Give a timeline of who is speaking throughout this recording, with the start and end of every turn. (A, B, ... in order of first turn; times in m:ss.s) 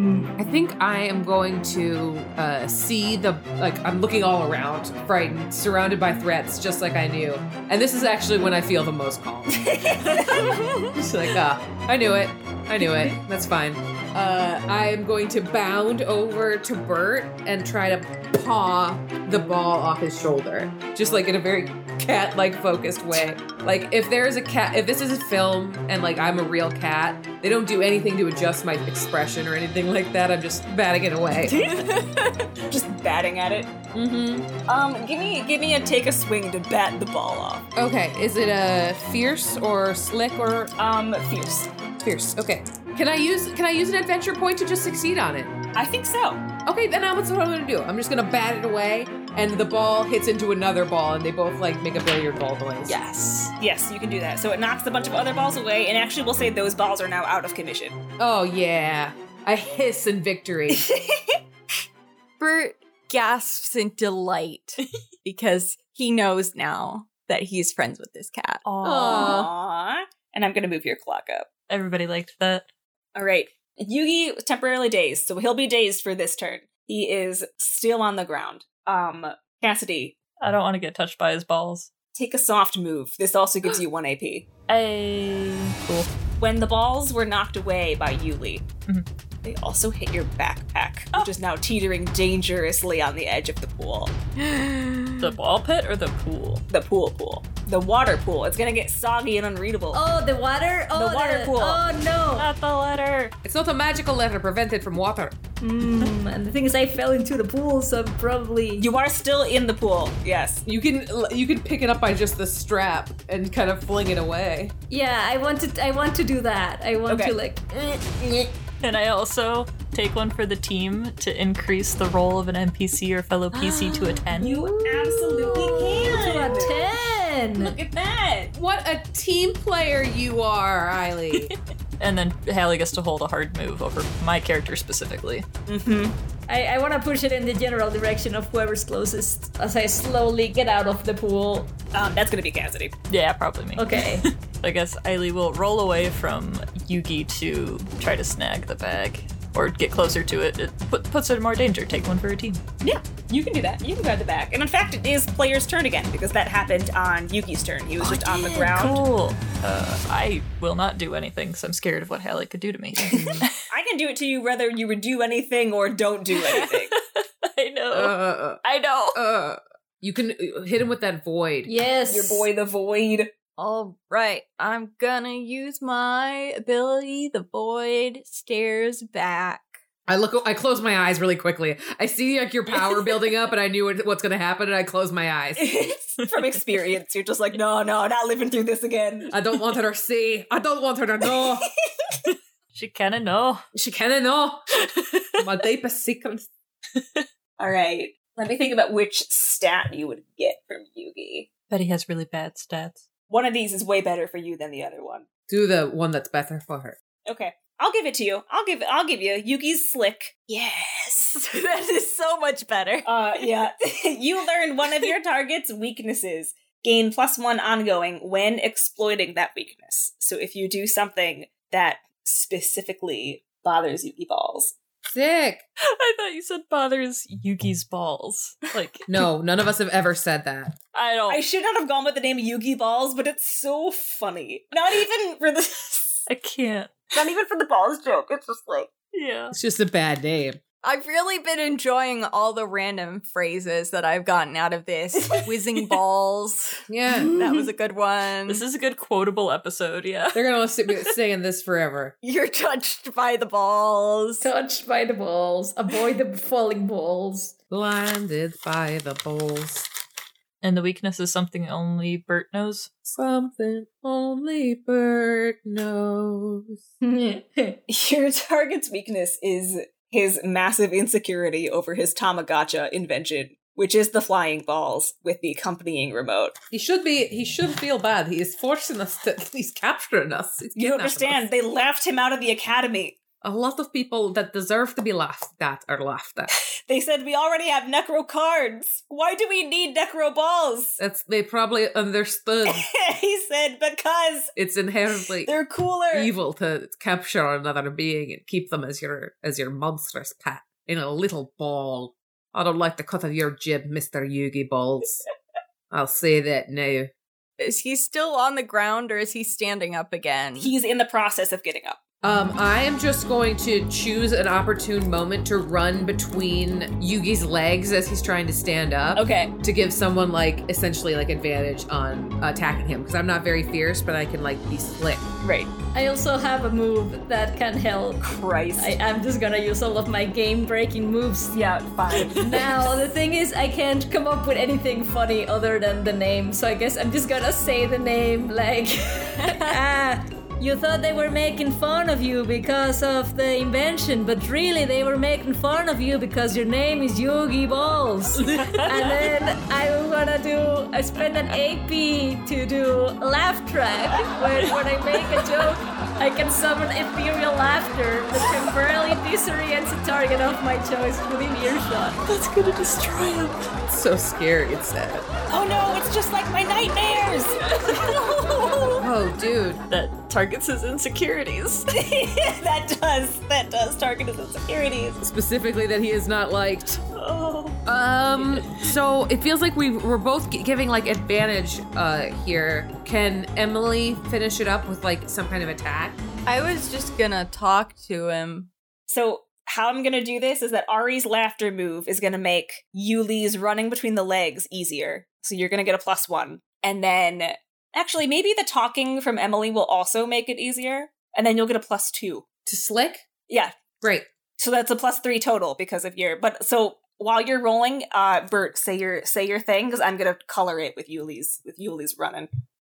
0:00.4-0:31.6 A
0:09.5-0:10.5 B
0:31.4-0:32.5 C
0:32.7-0:33.7 B
0:33.9-0:34.5 A
0:34.6-0:37.6 B
0:37.8-0:40.7 A
0:40.8-0:41.7 B
0:42.0-0:45.6 A
0:45.8-0:46.4 B
0:46.6-0:53.0 A
0:52.9-0:53.5 D
0:53.6-0:58.0 B
0:58.2-1:00.9 A
1:00.7-1:01.4 B
1:02.4-1:08.6 C
1:08.6-1:09.4 D
1:08.8-1:09.5 A
1:09.0-1:11.5 B
1:11.7-1:12.7 D
1:13.1-1:20.2 B
1:20.4-1:21.9 D
1:22.1-1:24.5 B
1:24.7-1:26.1 D
1:26.4-1:28.6 B
1:29.4-1:34.1 B
1:34.4-1:35.3 C
1:35.2-1:36.6 D
1:36.7-1:40.0 B
1:39.9-1:42.5 E
1:40.9-1:41.8 B
1:42.4-1:43.3 D
1:43.4-1:45.4 A
1:45.6-1:48.9 E
1:48.8-1:50.6 B
1:50.6-1:54.7 A
1:54.9-1:57.7 E
1:57.1-1:57.4 B
1:58.8-2:04.6 D
2:04.3-2:06.8 B
2:05.4-2:05.8 A
2:06.0-2:07.8 E
2:07.5-2:08.5 B
2:08.5-2:11.5 A
2:11.3-2:15.4 D
2:15.7-2:16.1 B
2:16.5-2:21.7 E
2:21.9-2:22.9 B
2:23.1-2:32.6 D
2:23.8-2:24.2 E
2:32.8-2:39.0 B
2:38.0-2:43.5 D
2:43.0-2:43.5 A
2:43.4-2:46.9 B
2:46.5-2:49.2 D
2:47.9-2:48.6 A
2:49.1-2:51.7 A
2:51.6-2:52.5 E
2:52.1-2:53.3 B
2:53.6-2:59.8 C
3:00.1-3:05.7 A
3:05.6-3:09.3 B
3:09.3-3:11.7 A
3:12.3-3:13.6 D
3:13.8-3:14.6 A
3:14.8-3:15.4 D
3:15.4-3:16.5 A
3:17.6-3:21.5 B
3:21.7-3:23.0 D
3:23.3-3:25.2 B
3:25.5-3:27.0 A
3:27.2-3:30.4 B
3:30.5-3:33.4 C
3:33.0-3:44.8 B
3:45.1-3:45.6 A
3:45.8-3:49.1 D
3:49.1-3:50.8 A
3:50.9-3:51.4 D
3:51.3-3:56.2 B
3:56.3-3:57.1 D
3:57.1-3:58.9 B
3:59.1-3:59.6 D
3:59.5-4:00.6 A
4:00.8-4:08.6 C
4:06.9-4:07.3 A
4:08.5-4:10.4 D
4:10.3-4:12.1 A
4:12.2-4:14.5 C
4:14.4-4:17.5 E
4:17.7-4:19.9 A
4:20.6-4:22.9 D
4:23.0-4:26.8 A
4:27.0-4:27.8 E
4:27.9-4:36.5 B
4:36.7-4:41.4 A
4:40.8-4:43.2 B
4:43.4-4:46.5 A
4:46.9-4:51.0 B
4:51.0-4:52.9 A
4:52.6-4:54.5 B
4:54.6-4:55.5 A
4:55.4-4:56.3 B
4:56.1-5:05.2 A
5:05.9-5:07.1 A
5:07.6-5:10.7 C
5:10.6-5:12.0 B
5:12.2-5:25.2 A
5:19.1-5:19.5 B
5:25.4-5:25.7 B
5:25.9-5:28.2 E
5:28.2-5:29.0 B
5:28.8-5:31.6 E
5:31.5-5:33.0 B
5:32.3-6:02.2 E
5:48.4-5:49.3 D
6:02.2-6:03.7 D
6:03.9-6:05.3 A
6:05.5-6:08.8 B
6:08.0-6:09.0 D
6:09.0-6:09.8 A
6:09.9-6:11.9 D
6:11.9-6:15.2 B
6:15.2-6:16.9 A
6:17.0-6:17.8 D
6:17.8-6:26.2 A
6:18.3-6:18.8 D
6:26.5-6:28.7 C
6:29.1-6:42.4 B
6:42.6-6:43.2 A
6:43.5-6:43.8 B
6:44.0-6:44.2 A
6:44.6-6:52.5 B